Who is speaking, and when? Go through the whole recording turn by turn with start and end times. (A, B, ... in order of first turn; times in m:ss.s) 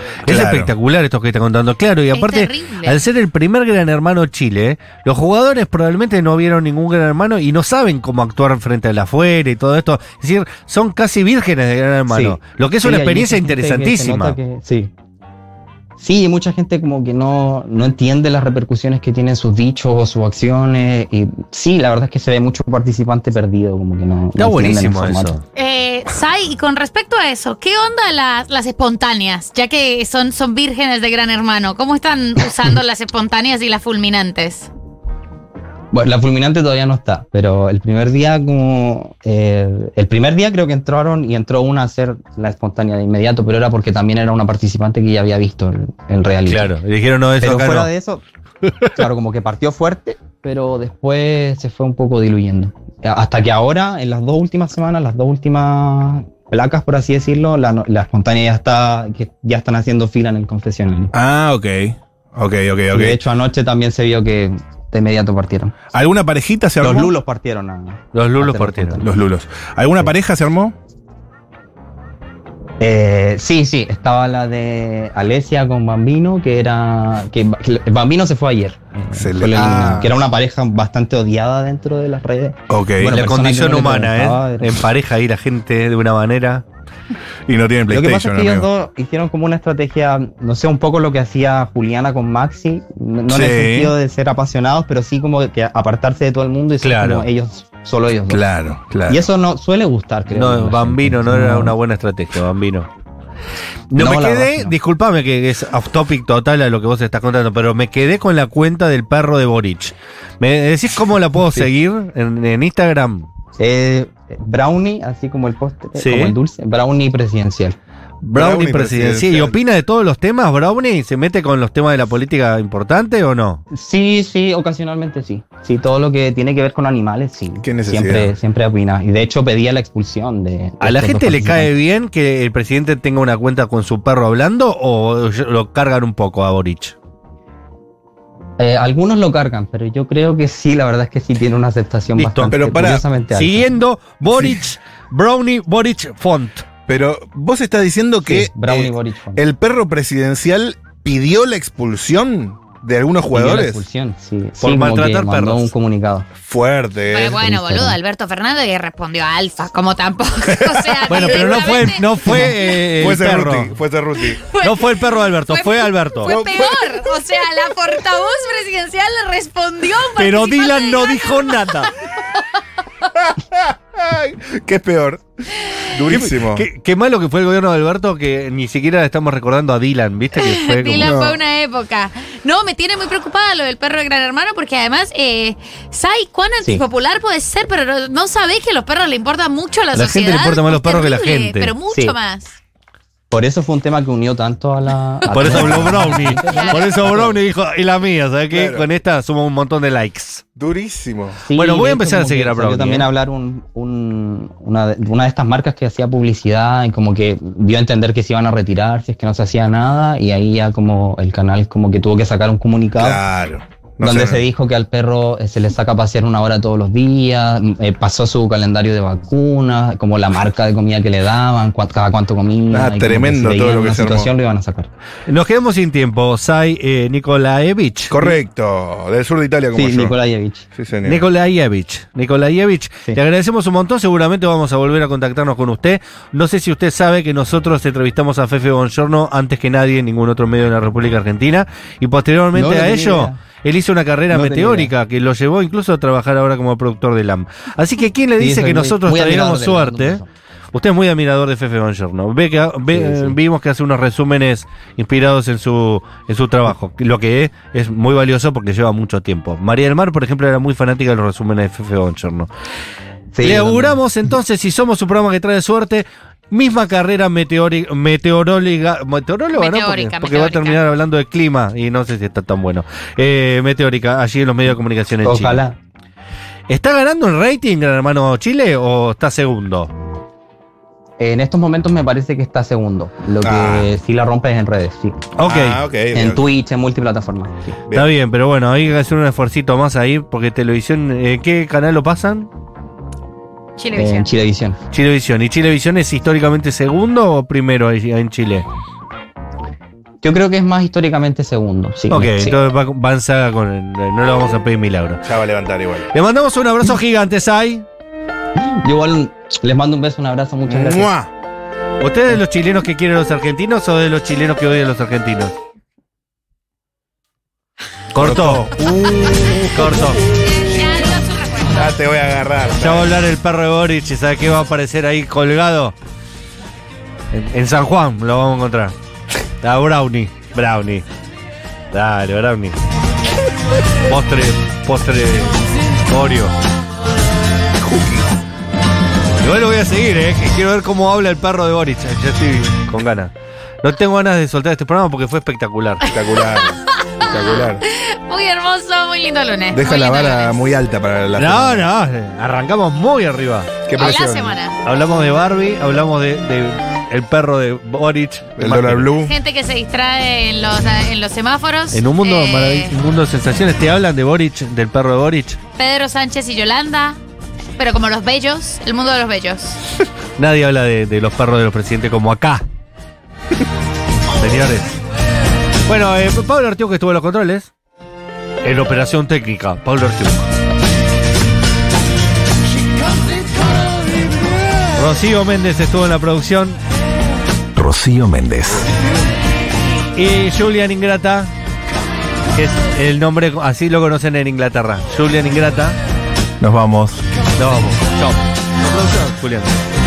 0:00.2-0:00.7 A
0:00.2-0:14.4 B
0:02.1-0:03.0 C
0:12.1-0:14.9 D
0:16.0-0:25.3 D
0:24.3-0:25.4 B
0:25.6-0:34.7 C
0:35.9-0:46.7 D
0:46.5-0:47.9 B
0:47.4-0:48.2 D
0:48.9-1:01.1 D
1:01.1-1:03.2 A
1:02.9-1:05.7 D
1:05.9-1:07.1 A
1:06.8-1:09.2 D
1:08.1-1:09.0 B
1:09.0-1:10.8 A
1:12.8-1:24.8 D
1:19.1-1:20.1 A
1:22.7-1:23.2 A
1:23.0-1:26.6 B
1:27.5-1:28.6 A
1:27.9-1:38.4 D
1:33.3-1:33.9 A
1:36.8-1:37.2 B
1:38.3-1:39.2 A
1:39.1-1:41.7 D
1:40.3-1:42.9 B
1:43.9-1:53.3 B
1:43.9-1:44.7 D
1:53.6-1:57.8 D
1:56.0-1:56.4 B
1:58.2-2:03.6 B
1:58.3-1:59.6 A
2:03.7-2:11.7 D
2:07.6-2:08.3 A
2:10.8-2:17.0 B
2:18.6-2:23.7 D
2:22.2-2:26.7 B
2:22.5-2:23.0 A
2:26.9-2:33.8 A
2:28.2-2:29.4 D
2:33.3-2:36.3 D
2:34.6-2:35.7 B
2:36.4-2:37.4 A
2:37.1-2:42.5 C
2:37.4-2:38.0 D
2:40.5-2:44.4 A
2:41.1-2:43.8 B
2:44.2-2:51.9 C
2:44.6-2:46.4 B
2:46.2-2:46.9 A
2:50.2-2:51.9 B
2:53.2-2:56.6 A
2:56.1-3:01.1 B
3:00.3-3:12.6 C
3:01.0-3:01.4 A
3:09.9-3:11.7 B
3:11.9-3:12.2 D
3:13.3-3:17.4 D
3:15.3-3:20.4 B
3:15.6-3:15.9 A
3:16.5-3:16.8 C
3:18.5-3:18.9 A
3:20.6-3:21.4 A
3:21.4-3:33.2 D
3:21.5-3:23.1 B
3:33.0-3:34.4 A
3:34.0-3:44.9 D
3:42.7-3:44.3 A
3:45.3-3:48.1 B
3:48.1-3:50.1 A
3:49.7-3:50.6 D
3:50.8-3:51.2 A
3:51.0-4:10.2 B
4:02.5-4:03.4 D
4:04.3-4:04.9 D
4:08.4-4:10.3 D
4:10.7-4:22.5 B
4:12.9-4:13.4 D
4:23.3-4:24.0 D
4:23.4-4:35.6 B
4:29.5-4:30.8 C
4:35.2-4:35.8 D
4:36.7-4:39.9 B
4:41.2-4:45.2 D
4:43.4-4:43.9 A
4:45.4-4:45.8 B
4:45.4-4:46.4 A
4:46.1-4:47.8 D
4:47.9-4:52.5 B
4:53.8-4:54.3 C
4:53.9-4:54.8 D
4:54.9-4:58.6 B
5:00.2-5:02.6 D
5:02.1-5:05.2 B
5:05.2-5:06.1 A
5:06.1-5:07.8 B
5:08.6-5:11.1 D
5:10.7-5:11.3 A
5:12.0-5:15.5 B
5:18.1-5:18.7 B
5:18.1-5:21.1 A
5:19.6-5:20.2 B
5:20.5-5:21.9 C
5:21.7-5:23.1 A
5:22.7-5:25.9 B
5:27.3-5:28.9 B
5:29.6-5:31.0 B
5:31.9-5:32.8 B
5:34.0-5:36.5 B
5:37.8-5:38.4 A
5:39.4-5:46.1 B
5:46.0-5:47.8 A
5:46.2-5:50.6 C
5:49.7-5:51.9 A
5:51.4-5:53.7 B
5:53.8-5:54.6 A
5:53.9-5:54.8 C
5:54.8-5:59.1 B
5:58.6-5:59.3 A
5:59.2-6:02.9 C
6:01.9-6:05.6 B
6:05.8-6:07.2 C
6:07.8-6:09.8 C
6:10.4-6:12.6 B
6:14.4-6:15.0 B
6:15.8-6:17.7 B
6:18.6-6:20.5 B
6:24.9-6:26.8 B
6:27.8-6:29.0 A
6:30.1-6:31.5 B
6:32.5-6:36.0 B
6:36.6-6:37.2 A
6:37.6-6:39.8 B